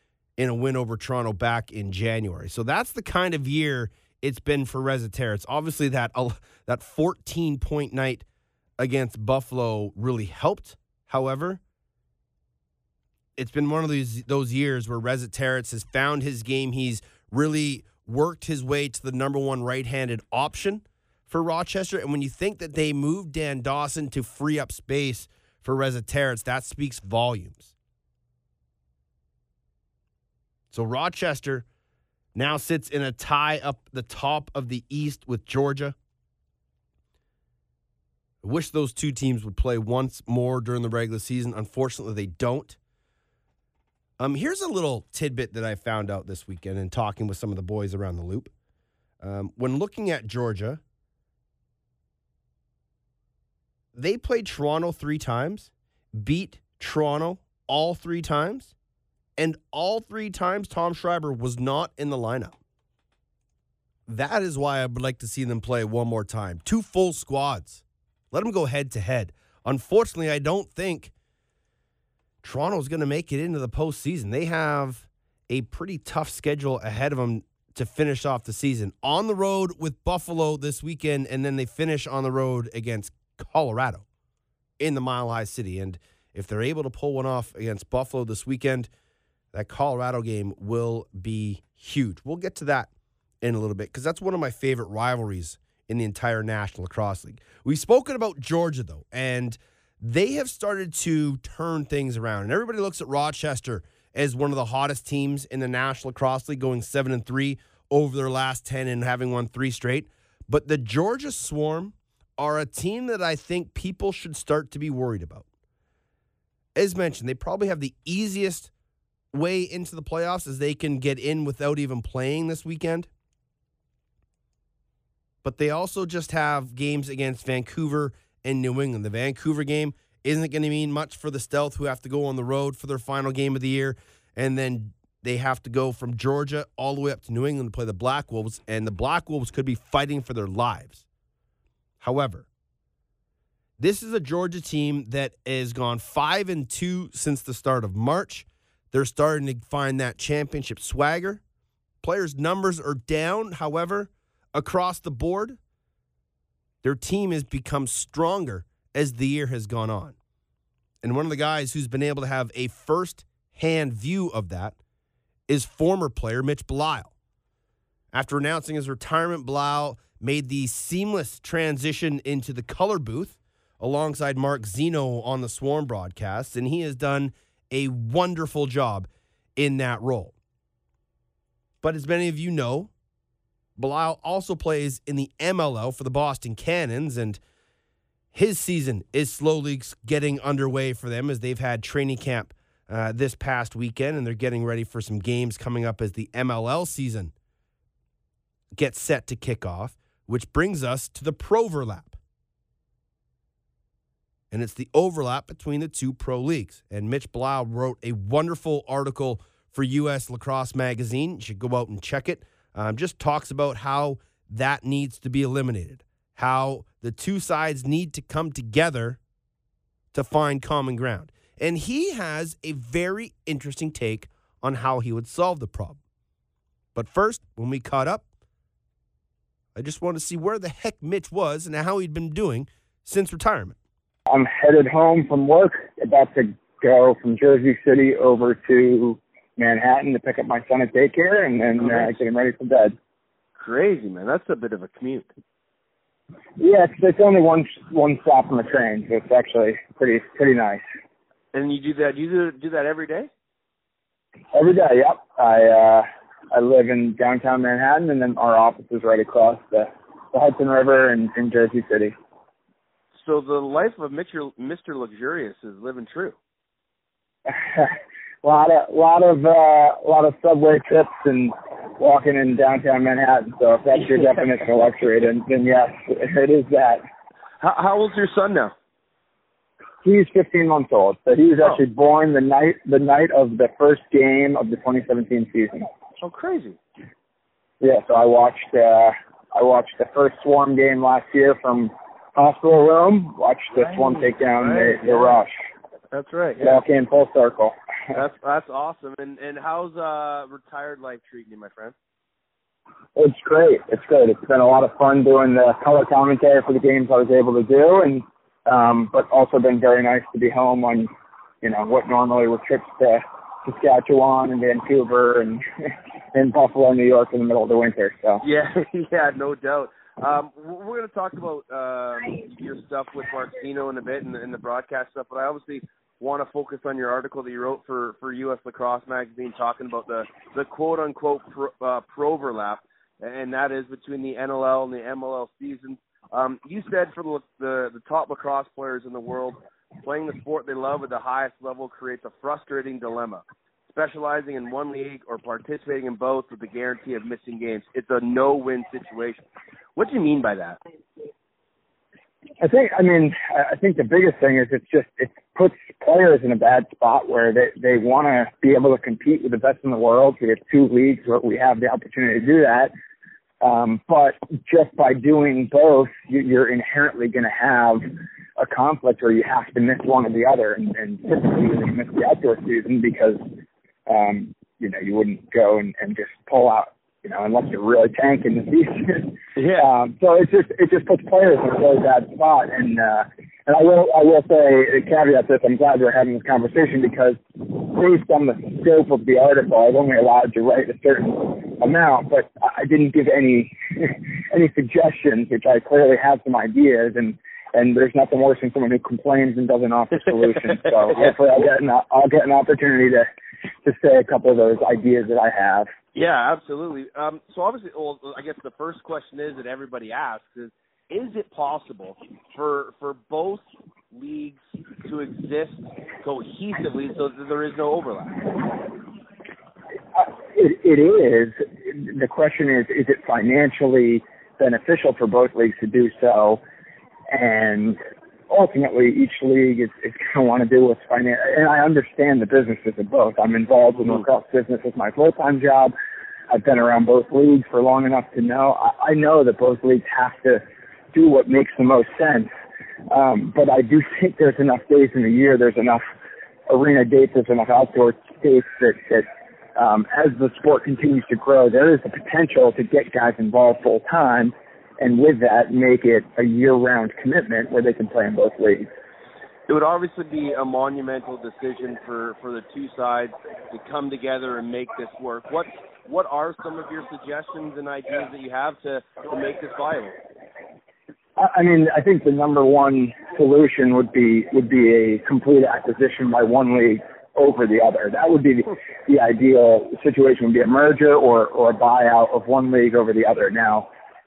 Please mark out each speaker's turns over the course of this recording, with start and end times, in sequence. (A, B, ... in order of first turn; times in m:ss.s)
0:00.4-0:08.2 A
0:08.8-0:11.6 A
0:13.4-0:27.7 A
0:30.7-0:31.6 A
0:32.4-0:36.0 A
0:38.4-0:42.8 A
0:44.2-0:48.5 A
0:49.2-0:50.8 A
0:53.9-0:58.7 A
0:59.4-1:02.6 A
1:04.1-1:11.1 A
1:12.4-1:24.0 A
1:24.8-1:28.9 A
1:29.5-1:32.9 A
1:33.4-1:55.5 A
1:56.8-1:58.7 A
1:59.3-2:03.1 A
2:05.4-2:21.0 A
2:22.0-2:22.5 A
2:23.8-2:31.4 A
2:32.0-2:35.6 A
2:36.8-2:40.2 A
2:41.0-2:44.8 A
2:45.5-2:47.1 A
2:48.1-3:00.3 A
3:01.8-3:02.9 A
3:03.8-3:07.4 A
3:08.3-3:17.3 A
3:18.8-3:22.2 A
3:24.5-3:39.2 A
3:40.1-3:46.0 A
3:47.0-3:48.2 A
3:49.8-3:53.8 A
3:54.3-4:03.0 B
4:01.8-4:02.1 C
4:03.6-4:05.3 C
4:06.6-4:10.8 B
4:11.5-4:13.3 C
4:14.5-4:22.2 B
4:23.2-4:26.4 C
4:27.5-4:37.0 B
4:37.6-4:38.7 C
4:40.0-4:45.9 B
4:46.2-4:46.8 C
4:47.8-4:55.5 B
4:53.8-4:55.4 C
4:56.1-4:56.8 C
4:56.6-4:57.8 B
4:58.1-5:01.9 C
5:03.2-5:11.1 B
5:11.6-5:18.4 B
5:18.4-5:49.4 C
5:50.0-5:50.8 C
5:52.6-6:02.9 B
6:03.6-6:08.0 B
6:08.6-6:13.5 B
6:14.1-6:43.3 B
6:19.6-6:19.9 C
6:43.8-6:45.9 B
6:46.2-6:58.8 C
7:00.2-7:06.6 B
7:07.3-7:15.9 B
7:16.5-7:22.5 B
7:23.1-7:26.0 B
7:26.7-7:38.9 B
7:39.7-7:50.1 C
7:51.4-8:03.9 B